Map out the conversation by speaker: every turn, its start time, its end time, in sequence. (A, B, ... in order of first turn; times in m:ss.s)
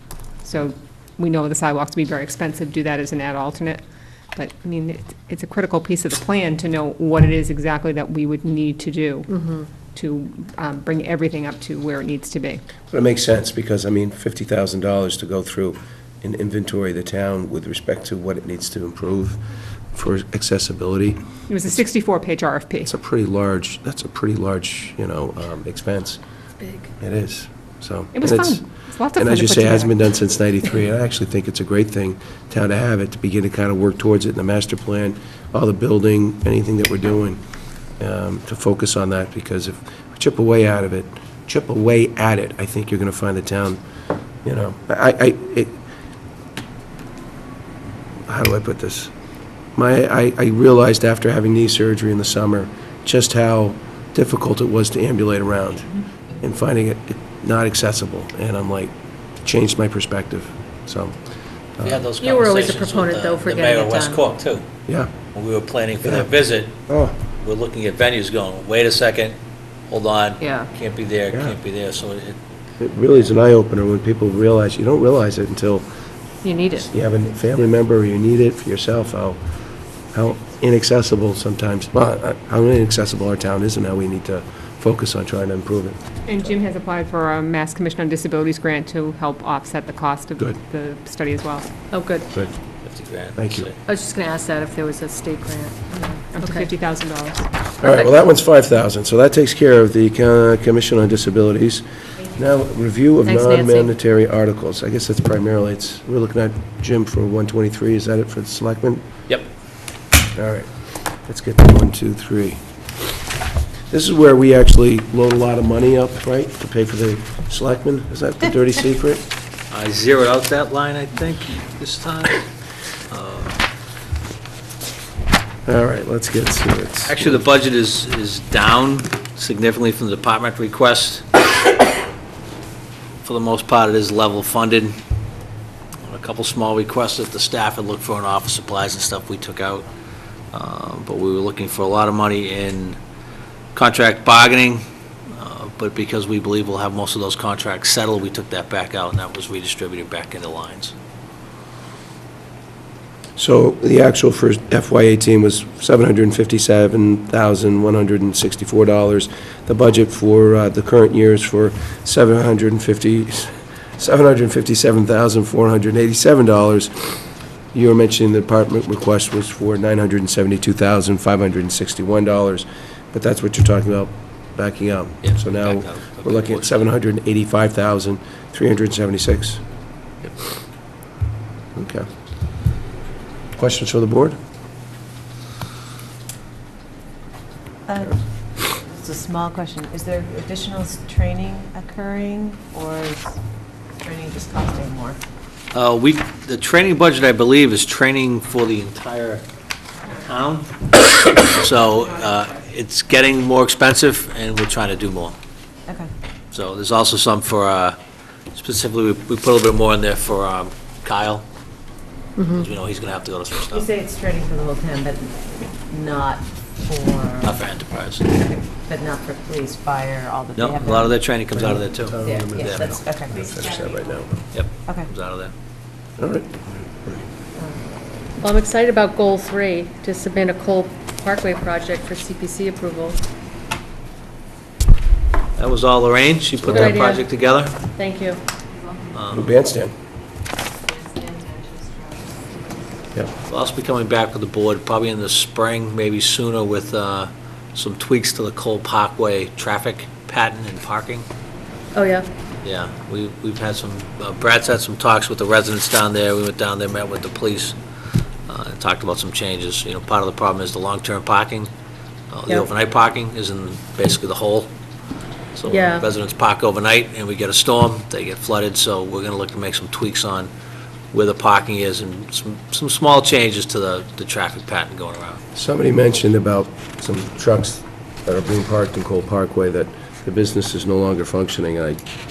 0:00.4-0:03.8 A
0:04.4-0:12.6 A
0:09.3-0:09.6 B
0:12.9-0:19.4 C
0:19.9-0:21.7 C
0:21.5-0:22.9 A
0:22.8-0:26.2 C
0:26.6-0:26.9 B
0:27.0-0:28.6 C
0:28.1-0:30.0 A
0:29.2-0:37.4 C
0:38.0-0:43.8 C
0:44.4-0:45.8 C
0:48.3-0:49.1 C
0:49.8-0:55.9 C
0:56.4-0:58.9 C
0:59.4-1:01.2 C
1:01.8-1:02.1 C
1:01.8-1:04.7 D
1:02.2-1:04.2 B
1:04.9-1:05.1 C
1:05.3-1:06.8 D
1:06.0-1:06.3 C
1:06.9-1:07.2 C
1:07.4-1:09.4 D
1:09.9-1:12.4 D
1:10.4-1:10.7 B
1:11.3-1:11.6 C
1:12.8-1:15.9 C
1:16.4-1:16.9 B
1:16.9-1:19.4 C
1:20.1-1:26.0 C
1:26.3-1:31.7 A
1:31.9-1:32.4 B
1:32.8-1:33.8 D
1:33.4-1:33.7 C
1:33.9-1:36.7 B
1:36.3-1:37.5 A
1:37.8-1:38.1 B
1:37.8-1:49.1 C
1:43.2-1:43.9 B
1:50.4-1:52.6 C
1:53.9-1:59.2 C
1:59.7-2:02.5 D
2:03.1-2:03.6 D
2:05.7-2:07.5 C
2:07.1-2:11.3 D
2:13.2-2:15.0 D
2:16.0-2:19.9 D
2:20.5-2:23.0 D
2:23.7-2:24.8 D
2:25.4-2:30.9 D
2:33.4-2:47.1 C
2:47.7-2:59.6 C
2:55.2-2:56.8 D
3:01.8-3:02.1 C
3:03.6-3:04.4 C
3:07.9-3:13.4 E
3:14.0-3:15.2 E
3:15.7-3:19.4 D
3:20.1-3:25.4 D
3:26.5-3:28.0 D
3:28.5-3:31.5 D
3:32.4-3:32.6 B
3:32.5-3:33.9 D
3:33.7-3:37.6 E
3:37.4-3:38.3 D
3:38.3-3:41.6 E
3:40.6-3:42.9 D
3:41.5-3:44.4 C
3:42.2-3:43.6 E
3:44.5-3:45.5 D
3:44.8-3:45.1 E
3:46.2-3:47.2 C
3:47.6-3:48.0 E
3:48.4-3:53.2 B
3:55.6-3:57.8 D
3:56.6-3:57.0 C
3:56.8-3:57.2 B
3:58.0-3:58.4 B
3:59.1-3:59.5 D
3:59.3-3:59.9 C
4:00.9-4:02.7 B
4:03.5-4:11.3 D
4:11.9-4:12.3 B
4:12.6-4:17.8 D
4:18.5-4:21.7 D
4:22.3-4:24.7 D
4:25.6-4:30.5 D
4:25.7-4:26.1 B
4:31.1-4:35.4 D
4:35.5-4:42.0 C